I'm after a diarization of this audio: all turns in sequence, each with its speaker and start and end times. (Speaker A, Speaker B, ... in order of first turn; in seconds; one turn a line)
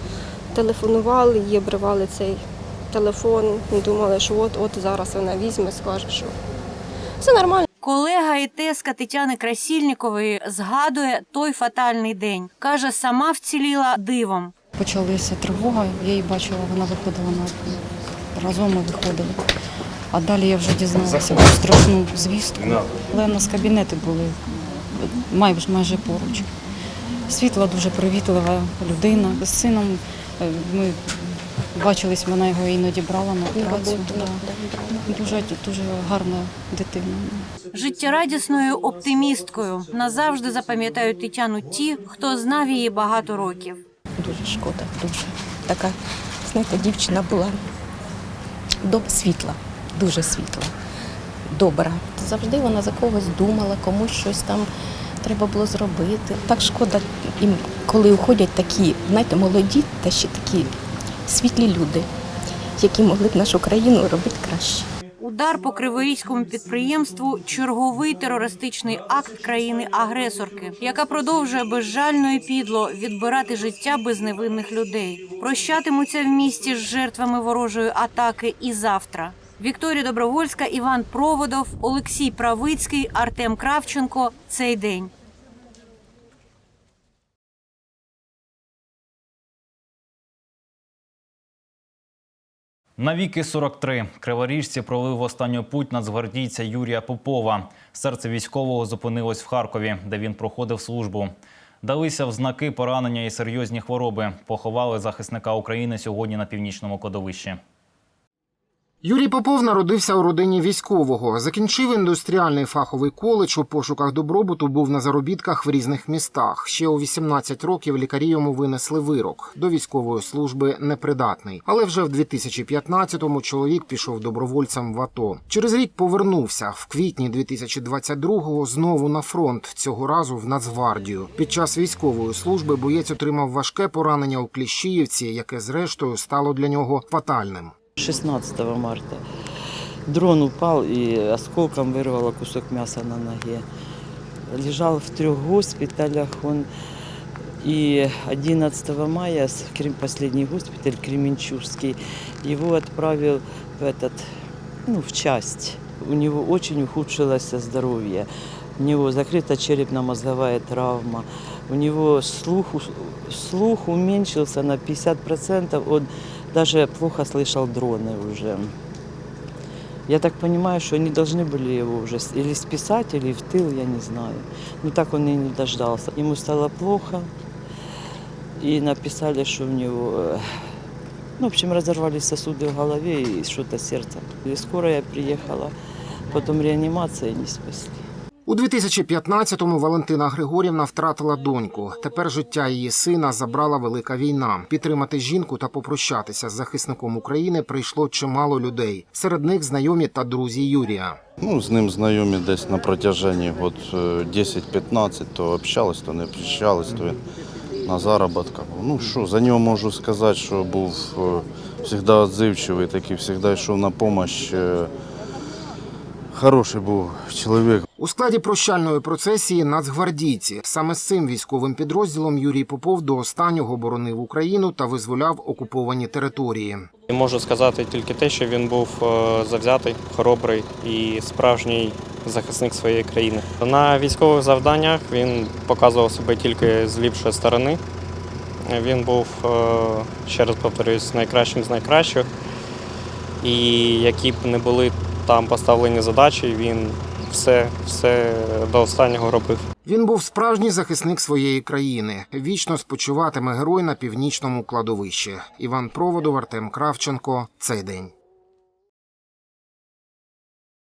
Speaker A: 0.5-6.3
Speaker A: 7.2-7.7
Speaker B: 7.8-14.5
Speaker C: 14.7-17.8
Speaker C: 18.3-19.4
Speaker C: 20.1-26.5
Speaker D: 21.1-21.4
Speaker D: 22.6-22.9
Speaker C: 27.3-34.5
Speaker E: 33.5-35.3
Speaker C: 35.0-37.5
Speaker B: 37.7-43.8
Speaker E: 44.2-47.6
Speaker E: 48.8-50.7
Speaker E: 51.5-54.7
Speaker E: 55.2-60.7
Speaker E: 61.3-62.1
Speaker E: 62.8-64.9
Speaker B: 65.2-85.1
Speaker D: 93.0-107.6
Speaker F: 109.0-137.7
Speaker G: 138.0-139.2
Speaker G: 140.1-143.6
Speaker G: 144.5-146.7
Speaker G: 147.6-154.3
Speaker G: 154.9-158.3
Speaker G: 158.8-168.7
Speaker G: 170.1-177.3
Speaker G: 178.6-180.4
Speaker G: 181.4-185.7
Speaker G: 186.3-187.9
Speaker F: 188.5-201.2
Speaker H: 201.4-207.2
Speaker H: 207.8-214.9
Speaker H: 216.3-217.8
Speaker F: 217.9-226.9
Speaker I: 227.1-237.8
Speaker I: 238.7-242.3
Speaker I: 243.4-249.6
Speaker F: 249.8-258.1